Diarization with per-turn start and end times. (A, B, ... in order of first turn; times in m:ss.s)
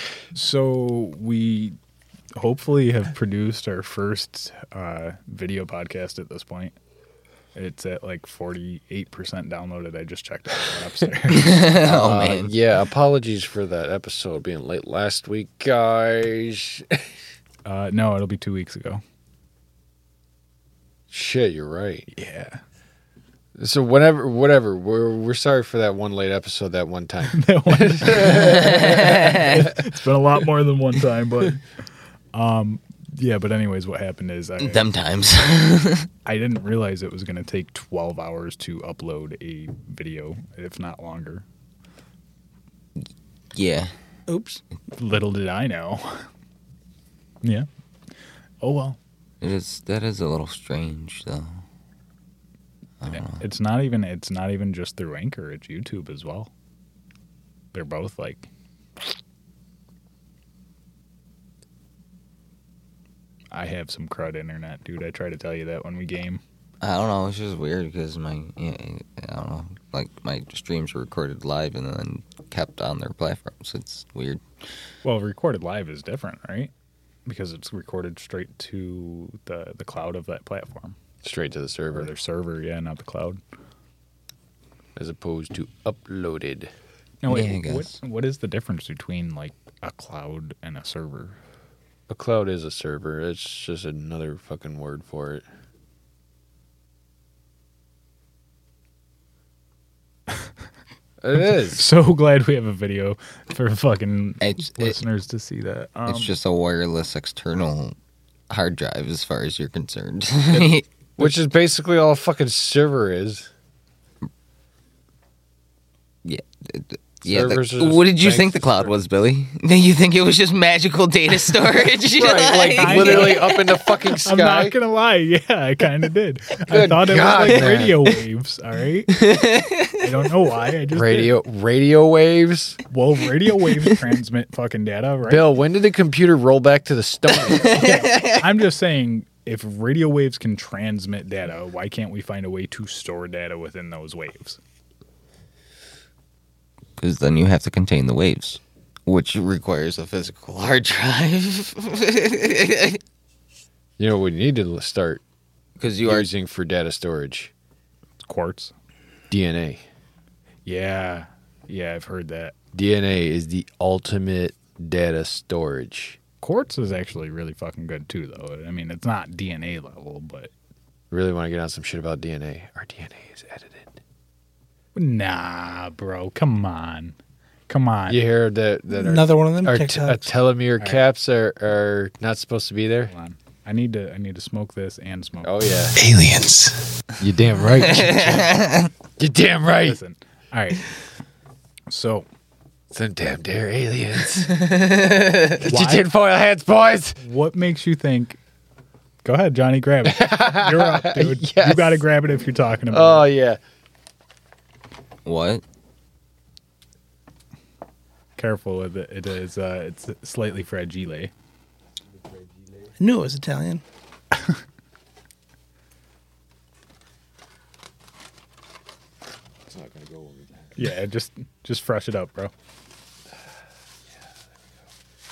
0:00.3-0:01.8 A
0:02.4-0:06.7 A
0:07.5-0:11.7 A
0:11.3-0:12.5 B
0:11.8-0:17.1 C
0:17.6-0:19.0 A
0:21.1-0:22.1 C
0:22.1-0:22.6 A
0:23.6-0:29.3 C
0:27.3-0:31.6 A
0:28.2-0:29.7 B
0:32.3-0:34.8 A
0:34.6-0:36.1 B
0:36.2-0:41.4 A
0:43.5-0:43.9 B
0:44.3-0:44.6 D
0:45.0-0:46.3 A
0:48.6-0:49.0 A
0:49.4-0:51.6 B
0:53.0-0:53.4 B
0:53.1-0:56.5 A
0:57.7-0:58.5 A
1:03.5-1:06.4 A
1:06.8-1:14.4 B
1:15.0-1:16.7 A
1:17.2-1:21.0 A
1:21.2-1:22.1 C
1:21.9-1:23.4 A
1:25.0-1:26.7 C
1:27.2-1:31.4 A
1:27.3-1:27.9 B
1:32.1-1:35.4 C
1:41.2-1:41.8 C
1:41.3-1:46.3 A
1:44.4-1:45.0 B
1:46.1-1:47.9 B
1:48.5-1:50.8 B
1:51.2-1:53.5 C
1:56.2-2:03.7 B
1:57.2-1:58.9 C
2:02.2-2:04.8 C
2:02.7-2:03.6 A
2:04.2-2:09.3 A
2:06.7-2:08.1 C
2:09.1-2:10.0 B
2:10.0-2:11.3 A
2:10.9-2:12.8 C
2:12.9-2:15.5 A
2:15.3-2:17.9 C
2:17.6-2:18.4 B
2:17.6-2:24.6 A
2:27.0-2:33.0 B
2:34.0-2:35.2 C
2:35.8-2:36.3 B
2:36.0-2:37.5 C
2:38.2-2:38.7 A
2:39.3-2:39.8 C
2:40.6-2:42.5 A
2:42.7-2:46.2 C
2:46.4-2:50.5 A
2:51.1-2:54.0 C
2:54.9-2:57.2 A
2:57.7-2:58.2 A
2:58.1-3:03.1 C
2:58.9-3:00.3 D
3:03.1-3:05.5 A
3:05.4-3:06.1 C
3:06.1-3:06.7 B
3:07.2-3:08.6 C
3:07.8-3:08.9 B
3:09.2-3:10.0 C
3:09.8-3:10.8 A
3:11.9-3:12.3 A
3:12.9-3:14.7 C
3:14.6-3:15.6 B
3:15.6-3:17.2 C
3:15.6-3:16.1 A
3:17.2-3:18.4 A
3:19.2-3:23.3 A
3:20.0-3:22.0 C
3:22.9-3:23.6 C
3:25.2-3:25.6 B
3:28.4-3:31.3 A
3:33.0-3:33.8 D
3:39.7-3:40.5 C
3:40.8-3:42.5 A